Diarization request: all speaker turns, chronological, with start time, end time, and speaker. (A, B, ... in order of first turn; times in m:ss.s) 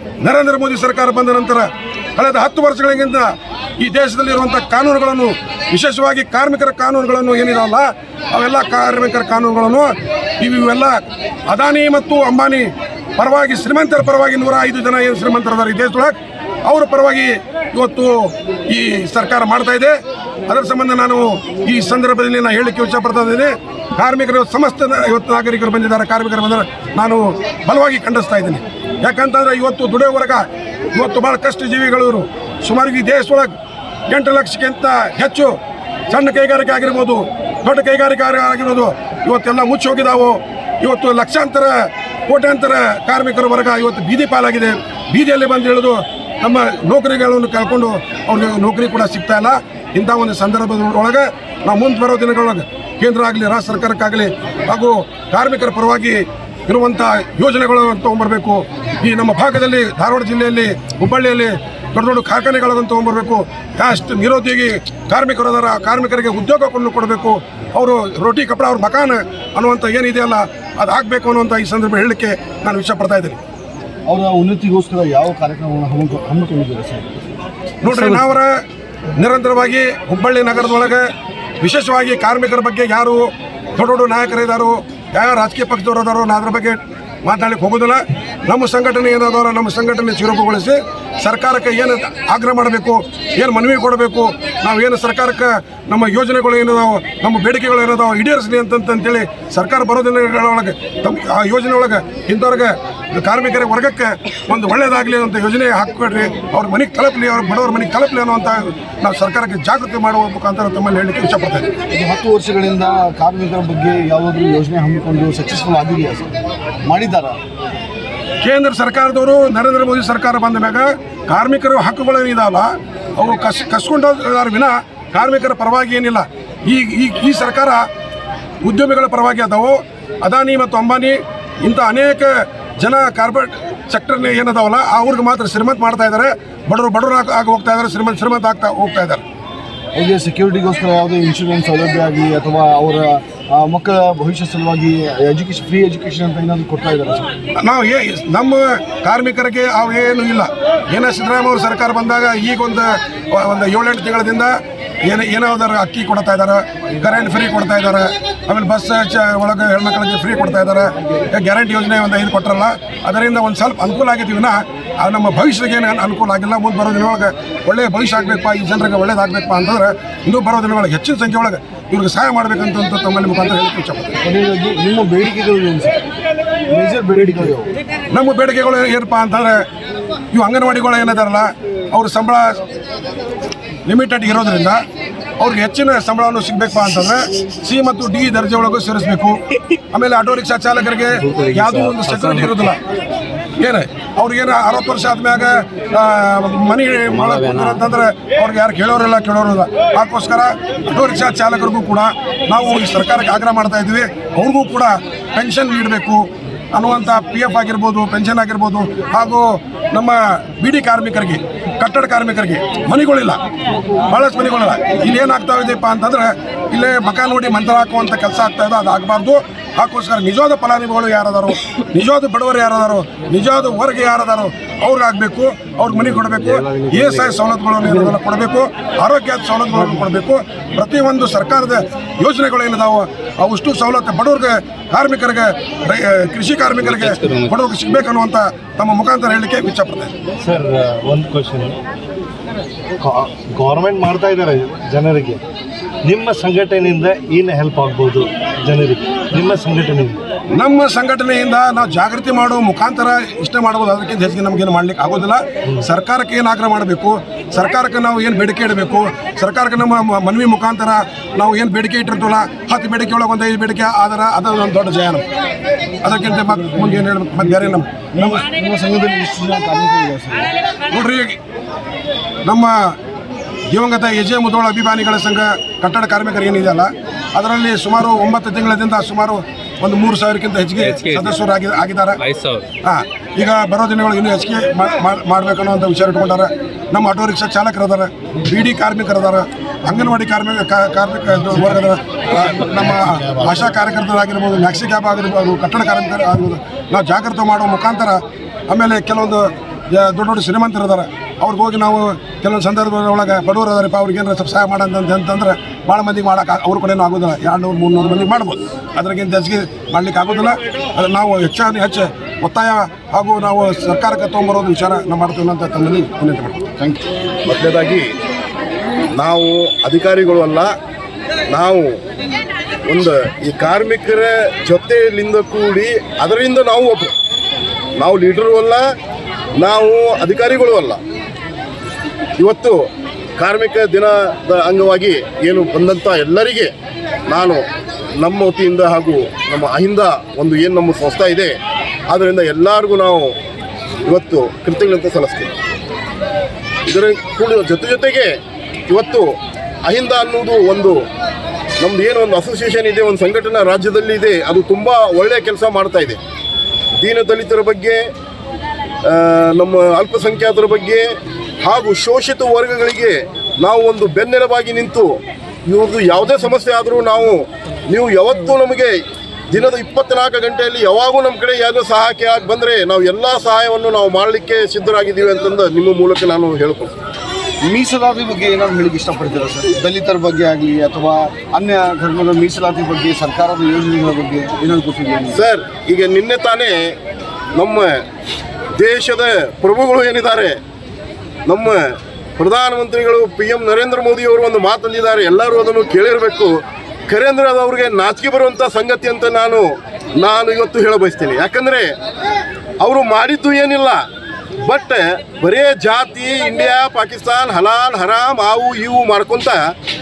0:00.2-0:19.9 A
0:20.5-0:33.5 A
0:34.1-0:35.5 A
0:36.1-1:13.4 A
1:14.1-1:17.1 B
1:17.8-1:18.6 A
1:19.2-1:21.1 A
1:21.6-1:51.7 A
1:51.9-1:56.3 B
1:56.9-1:57.4 B
1:58.4-2:07.8 A
2:08.6-2:19.2 A
2:20.0-2:27.3 B
2:27.6-2:34.5 A
2:35.0-2:54.2 A
2:54.2-2:56.0 B
2:56.7-2:57.7 B
2:58.1-2:59.6 A
3:00.3-3:02.6 A
3:03.8-3:04.8 A
3:05.4-3:09.4 A
3:09.9-3:12.8 A
3:11.3-3:12.6 C
3:13.6-3:33.4 A
3:17.2-3:17.8 C
3:34.1-4:00.1 A
3:46.6-3:47.0 C
3:56.8-3:57.5 C
4:00.4-4:01.8 C
4:03.0-4:05.4 C
4:06.0-4:10.2 C
4:10.6-4:25.2 A
4:26.0-4:28.4 A
4:28.2-4:30.5 B
4:30.9-4:31.4 A
4:32.5-4:32.8 A
4:33.7-4:42.2 A
4:40.8-4:41.4 C
4:42.2-4:42.6 C
4:42.8-5:16.6 A
5:17.5-5:18.1 D
5:19.2-5:20.7 D
5:21.5-5:22.0 D
5:22.9-5:27.1 D
5:28.0-5:28.8 D
5:29.6-5:31.0 D
5:32.4-5:32.8 D
5:33.4-5:36.7 D
5:37.3-5:37.6 D
5:38.2-5:41.5 D
5:42.1-5:43.3 D
5:44.1-5:45.5 D
5:46.9-5:48.3 D
5:48.9-5:49.3 D
5:49.9-5:51.0 D
5:51.8-5:56.2 D
5:57.0-5:58.0 D
5:59.1-6:01.0 D
6:01.6-6:05.1 D
6:05.6-6:08.9 D
6:09.5-6:16.9 D
6:17.6-6:25.4 B
6:25.3-6:26.8 D
6:27.6-6:27.9 D
6:28.8-6:30.6 D
6:31.5-6:31.8 D
6:32.4-6:36.5 D
6:37.1-6:39.7 D
6:40.2-6:41.9 D
6:42.8-6:44.0 D
6:44.6-6:49.6 D